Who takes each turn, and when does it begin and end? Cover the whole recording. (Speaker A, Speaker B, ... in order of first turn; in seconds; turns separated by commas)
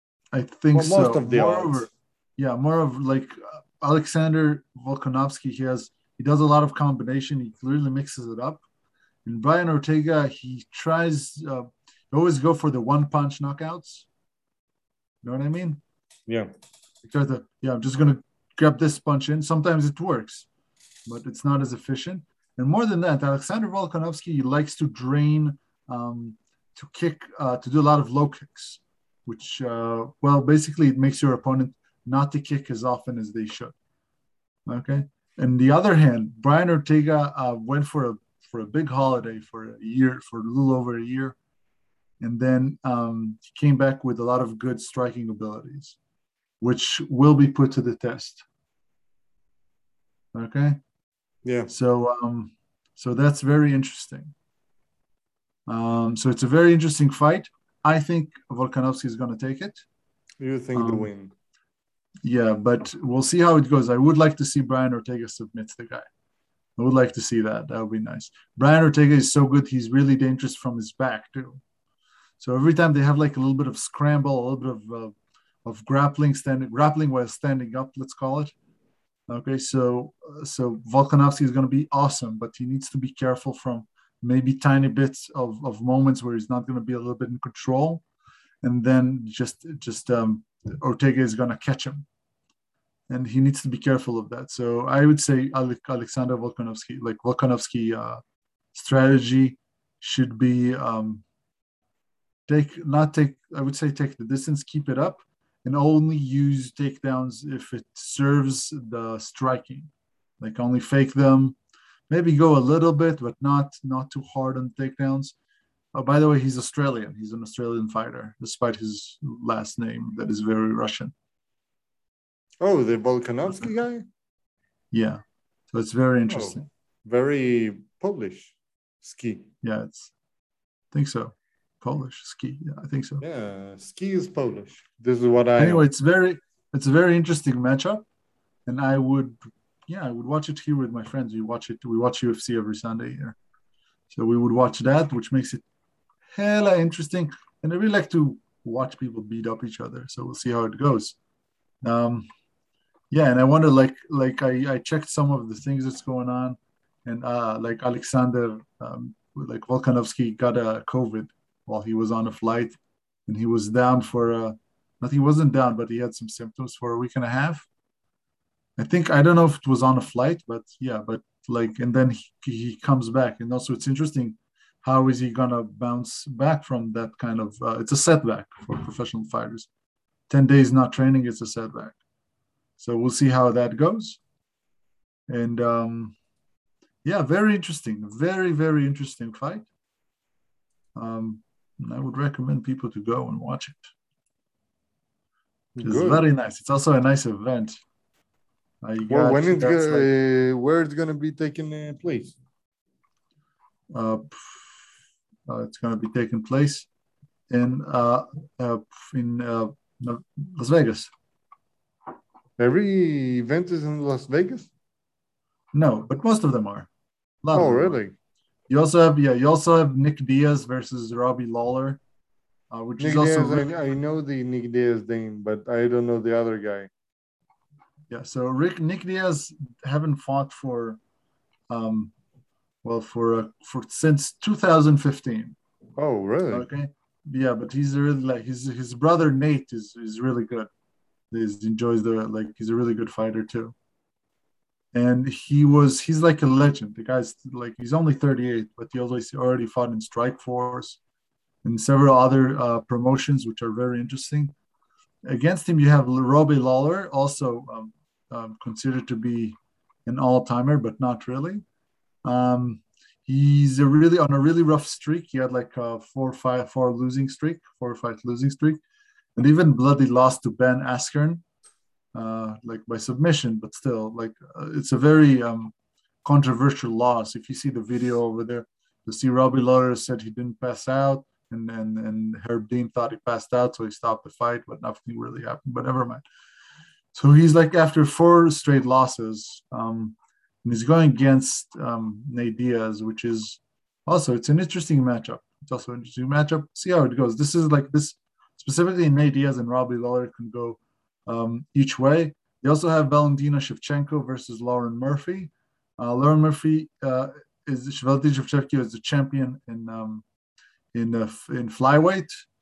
Speaker A: 0.3-8.6, Speaker B: 0.7-1.9, Speaker A: 9.2-14.1, Speaker A: 15.2-15.8, Speaker A: 17.1-20.5, Speaker A: 21.1-33.8, Speaker A: 34.7-41.4, Speaker A: 42.2-46.0, Speaker A: 46.6-48.5, Speaker A: 50.3-50.8, Speaker B: 51.5-51.7, Speaker A: 51.7-54.3, Speaker A: 55.7-59.8, Speaker B: 60.4-61.3, Speaker A: 60.7-61.1, Speaker A: 62.2-66.1, Speaker A: 66.8-71.6, Speaker A: 72.4-78.5, Speaker A: 79.3-88.0, Speaker A: 88.6-92.1, Speaker A: 93.1-98.2, Speaker A: 98.7-101.2, Speaker A: 102.5-111.6, Speaker A: 112.1-115.3, Speaker A: 115.9-121.1, Speaker B: 122.6-124.0, Speaker A: 124.9-126.7, Speaker B: 126.3-129.5, Speaker A: 129.6-130.1, Speaker A: 130.9-133.2, Speaker B: 133.2-135.9, Speaker A: 135.6-138.1, Speaker A: 138.7-143.4, Speaker A: 144.1-145.6, Speaker A: 146.3-151.2, Speaker A: 151.8-152.3, Speaker A: 153.1-167.7, Speaker A: 168.8-179.7, Speaker A: 180.3-182.0, Speaker A: 182.8-184.2, Speaker A: 185.3-186.2, Speaker A: 187.0-189.7, Speaker A: 190.9-193.9, Speaker B: 195.8-196.3, Speaker A: 195.8-197.8, Speaker A: 198.8-200.1, Speaker B: 199.1-202.4, Speaker A: 203.9-204.8, Speaker A: 205.5-206.9, Speaker A: 207.5-211.1, Speaker B: 212.6-214.7, Speaker A: 215.7-216.9, Speaker A: 217.4-218.0, Speaker B: 217.5-218.1, Speaker A: 218.7-222.0, Speaker A: 222.7-223.7, Speaker B: 223.0-226.9, Speaker A: 228.1-231.0, Speaker A: 231.7-232.1, Speaker A: 232.8-235.6, Speaker B: 236.0-236.7, Speaker A: 236.5-240.7, Speaker A: 241.3-243.8, Speaker A: 244.9-251.0, Speaker A: 251.6-254.5, Speaker A: 255.2-261.6, Speaker A: 262.2-268.8, Speaker A: 269.4-271.4, Speaker A: 272.1-275.7, Speaker A: 276.2-286.2, Speaker A: 287.1-310.2, Speaker A: 310.9-312.3